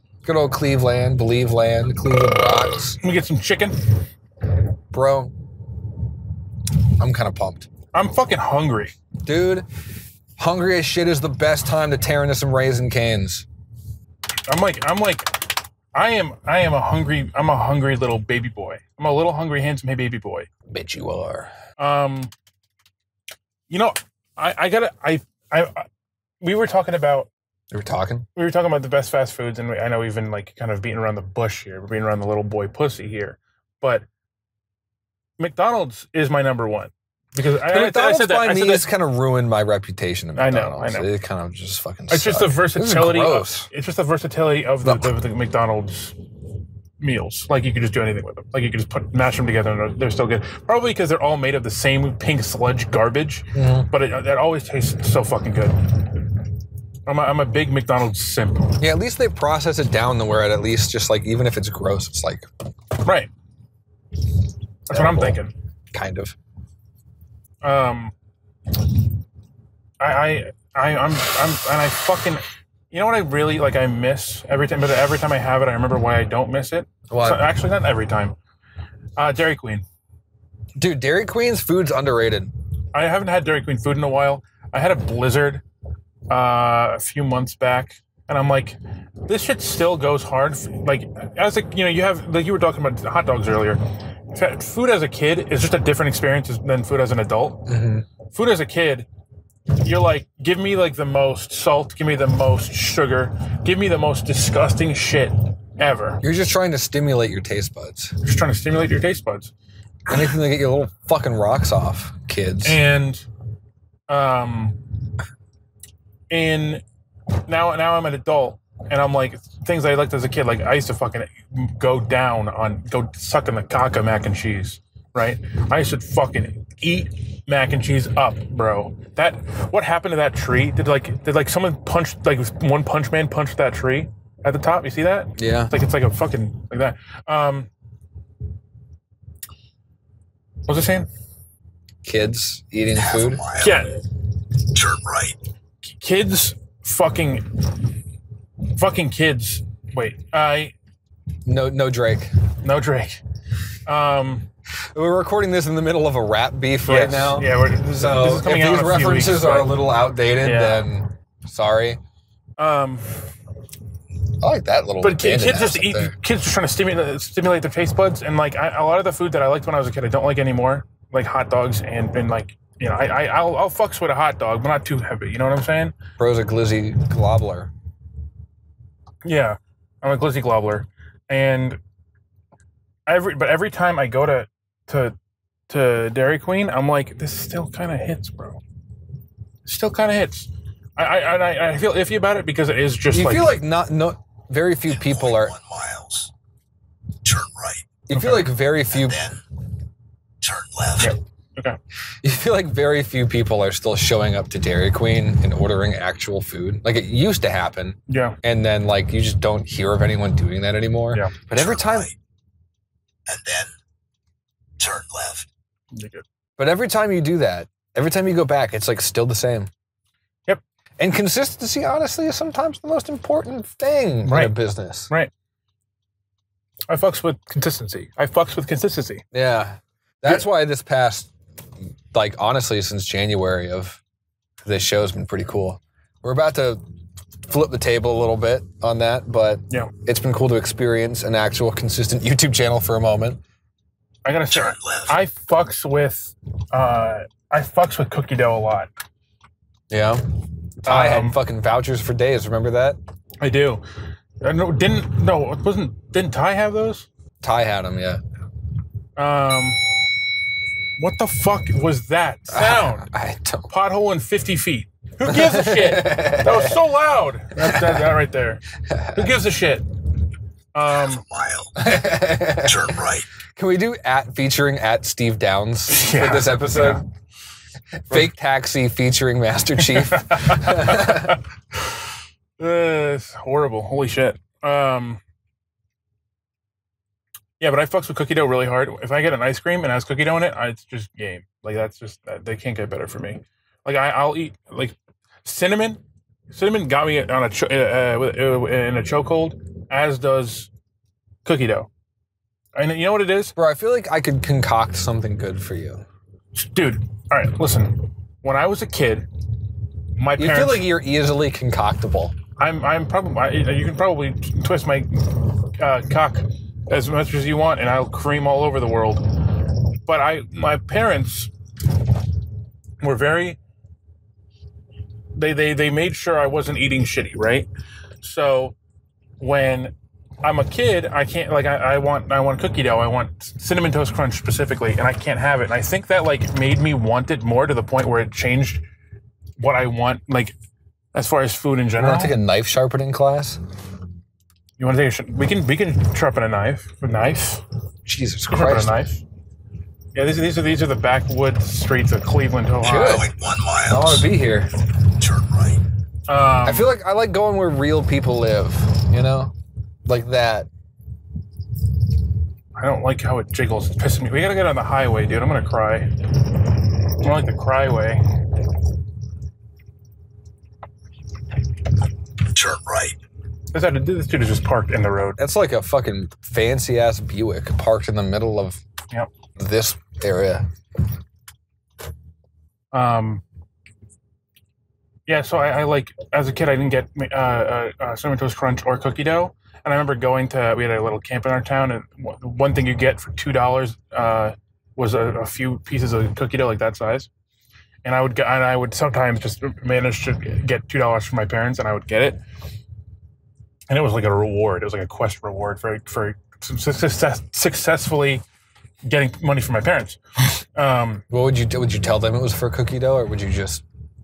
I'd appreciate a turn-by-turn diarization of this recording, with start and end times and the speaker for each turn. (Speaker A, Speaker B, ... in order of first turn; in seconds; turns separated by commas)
Speaker A: 0.2-3.0, Speaker B: 3.0-4.0, Speaker A: 4.9-5.4, Speaker A: 7.0-7.7, Speaker B: 7.9-8.9, Speaker A: 9.2-9.7, Speaker A: 10.4-13.4, Speaker B: 14.5-20.5, Speaker A: 20.7-21.5, Speaker B: 21.8-22.3, Speaker B: 23.7-25.9, Speaker B: 26.4-27.3, Speaker A: 27.7-28.3, Speaker B: 28.4-34.0, Speaker B: 35.4-38.9, Speaker A: 37.7-43.7, Speaker B: 40.4-41.1, Speaker B: 42.1-46.2, Speaker A: 44.8-45.1, Speaker B: 47.0-56.1, Speaker A: 53.5-53.9, Speaker B: 57.0-58.8, Speaker A: 58.8-62.5, Speaker B: 63.0-63.3, Speaker B: 64.9-65.5, Speaker A: 64.9-66.4, Speaker B: 67.6-68.1, Speaker B: 70.0-78.3, Speaker A: 77.1-77.5, Speaker B: 79.2-79.8, Speaker A: 80.8-82.5, Speaker B: 82.9-85.6, Speaker B: 86.3-97.7, Speaker A: 97.7-98.0, Speaker B: 98.3-99.1, Speaker B: 99.8-106.2, Speaker A: 106.2-108.2, Speaker B: 108.2-109.5, Speaker A: 110.1-112.8, Speaker B: 112.6-113.2, Speaker B: 114.1-114.8, Speaker B: 116.3-116.8, Speaker B: 117.5-137.7, Speaker A: 135.4-135.7, Speaker B: 140.7-141.1, Speaker A: 142.0-143.4, Speaker C: 142.9-143.8, Speaker B: 143.6-143.9, Speaker C: 144.7-145.4, Speaker B: 145.8-147.8, Speaker B: 148.7-150.7, Speaker A: 151.4-152.3, Speaker B: 152.6-153.2, Speaker B: 153.8-154.5, Speaker A: 154.9-162.0, Speaker B: 156.8-159.8, Speaker B: 160.4-160.9, Speaker B: 162.6-163.2, Speaker A: 164.4-166.1, Speaker B: 165.0-175.9, Speaker A: 176.2-177.7, Speaker B: 179.2-181.8, Speaker B: 183.1-185.2, Speaker B: 185.7-188.6, Speaker B: 189.7-193.6, Speaker A: 193.1-195.5, Speaker C: 194.9-196.3, Speaker C: 197.2-198.0, Speaker A: 198.1-199.2, Speaker B: 198.1-198.4, Speaker C: 198.9-199.4, Speaker C: 200.4-201.2, Speaker B: 201.0-201.8, Speaker A: 202.2-212.1, Speaker B: 208.1-208.4, Speaker C: 211.5-212.2, Speaker C: 213.3-213.7, Speaker C: 214.8-215.5, Speaker B: 215.9-216.2, Speaker A: 216.6-219.7, Speaker A: 221.0-225.1, Speaker B: 224.2-224.6, Speaker B: 226.9-229.2, Speaker A: 229.3-231.3, Speaker A: 232.1-234.0, Speaker A: 234.6-236.8, Speaker A: 237.5-243.4, Speaker B: 244.2-248.9, Speaker C: 244.5-245.2, Speaker A: 249.9-253.0, Speaker B: 250.8-251.4, Speaker B: 253.4-253.8, Speaker B: 254.4-257.1, Speaker A: 257.4-258.2, Speaker B: 259.2-259.9, Speaker B: 261.0-263.1, Speaker A: 262.5-263.7, Speaker B: 263.7-270.0, Speaker A: 265.2-266.8, Speaker A: 267.6-268.1, Speaker A: 268.7-269.4, Speaker B: 270.7-271.2, Speaker C: 270.9-271.9, Speaker A: 271.8-273.0, Speaker C: 272.6-273.3, Speaker A: 273.5-277.0, Speaker B: 275.9-277.0, Speaker A: 278.1-281.4, Speaker B: 279.8-282.0, Speaker B: 282.6-285.2, Speaker B: 287.6-296.0, Speaker B: 296.5-300.7, Speaker B: 301.4-301.9, Speaker B: 302.7-303.5, Speaker A: 303.5-306.0, Speaker B: 306.5-309.3, Speaker B: 310.1-310.9, Speaker A: 310.4-312.3, Speaker B: 312.6-321.5, Speaker B: 323.0-323.6, Speaker B: 325.3-327.7, Speaker B: 328.2-328.7, Speaker B: 329.4-338.8, Speaker B: 339.6-340.5, Speaker B: 341.1-342.4, Speaker A: 342.0-343.6, Speaker B: 344.8-347.6, Speaker A: 348.1-349.0, Speaker B: 348.5-349.2, Speaker B: 350.1-353.2, Speaker A: 352.8-353.3, Speaker C: 352.9-354.3, Speaker A: 353.9-354.8, Speaker C: 355.1-355.8, Speaker B: 356.3-356.9, Speaker A: 356.6-359.5, Speaker A: 360.1-360.7, Speaker B: 362.8-366.3, Speaker B: 367.2-368.2, Speaker C: 372.5-373.2, Speaker B: 373.7-375.4, Speaker A: 375.4-378.8, Speaker A: 379.6-380.7, Speaker B: 382.9-383.4, Speaker B: 385.3-397.3, Speaker B: 398.0-402.4, Speaker B: 403.9-408.4, Speaker B: 409.0-411.2, Speaker A: 411.3-413.8